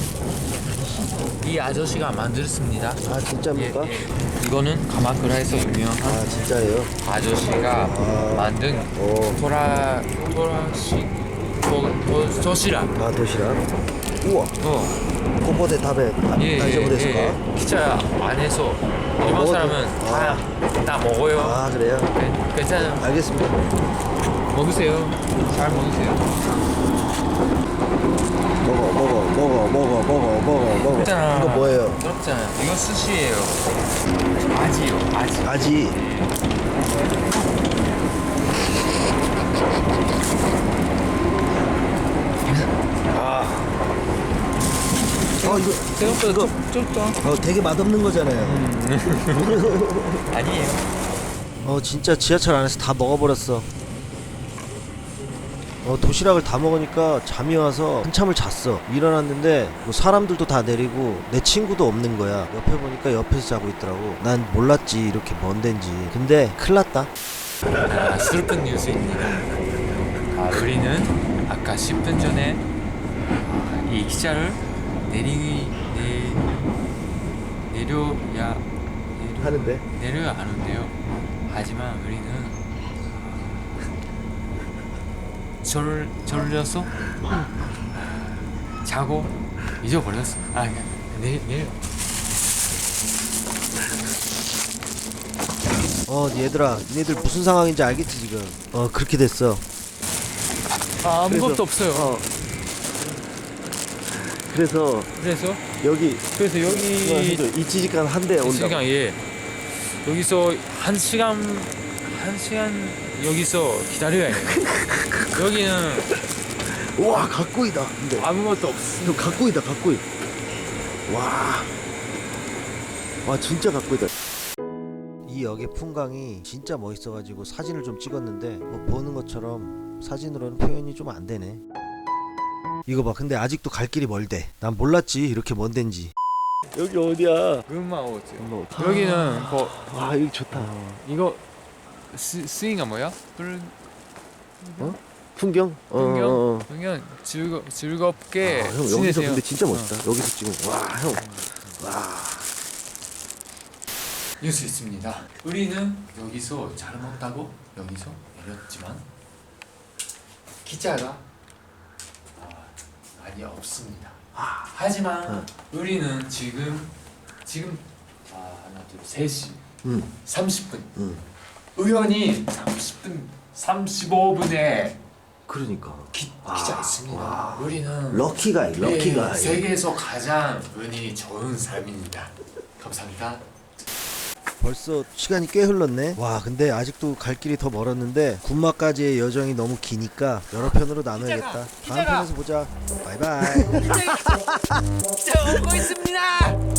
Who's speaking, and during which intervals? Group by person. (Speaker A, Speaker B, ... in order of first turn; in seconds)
Speaker A: 1.4-6.5, 7.0-13.0, 14.6-15.0, 16.3-23.3, 24.5-26.3, 30.5-33.7, 34.5-36.3, 45.4-47.2, 48.4-49.8, 50.3-50.9, 67.8-69.4, 70.3-72.6, 73.4-76.5, 77.7-82.6, 85.6-86.9, 88.8-91.8, 101.0-102.2, 105.1-105.7, 106.3-107.5, 108.4-109.2, 109.7-114.7, 115.3-116.1, 117.1-117.3, 118.1-119.5, 137.7-139.8, 140.5-141.4, 142.1-143.7, 144.6-145.0, 145.9-150.0, 151.1-151.8, 154.4-159.0, 160.6-161.2, 162.3-166.9, 167.4-169.6, 170.2-171.1, 171.8-175.0, 176.1-183.4, 190.5-192.3, 193.4-194.5, 195.1-196.6
Speaker B: 3.0-4.0, 6.0-6.9, 7.8-9.4, 12.9-13.6, 14.2-14.5, 15.4-17.4, 19.2-20.5, 21.4-22.1, 22.8-23.6, 28.6-32.0, 35.4-36.0, 43.1-43.7, 45.4-46.5, 47.2-48.7, 49.4-50.2, 51.6-53.7, 55.8-67.1, 79.4-79.8, 96.1-99.6, 101.3-102.2, 104.1-105.1, 105.8-108.8, 114.5-115.4, 116.7-118.3, 119.0-120.0, 121.1-121.7, 123.2-124.1, 125.2-131.6, 132.9-136.1, 136.7-137.6, 138.4-140.7, 144.8-146.7, 148.4-151.2, 151.8-152.5, 164.3-164.6, 169.8-170.1, 170.9-171.2, 175.5-179.6, 184.6-194.8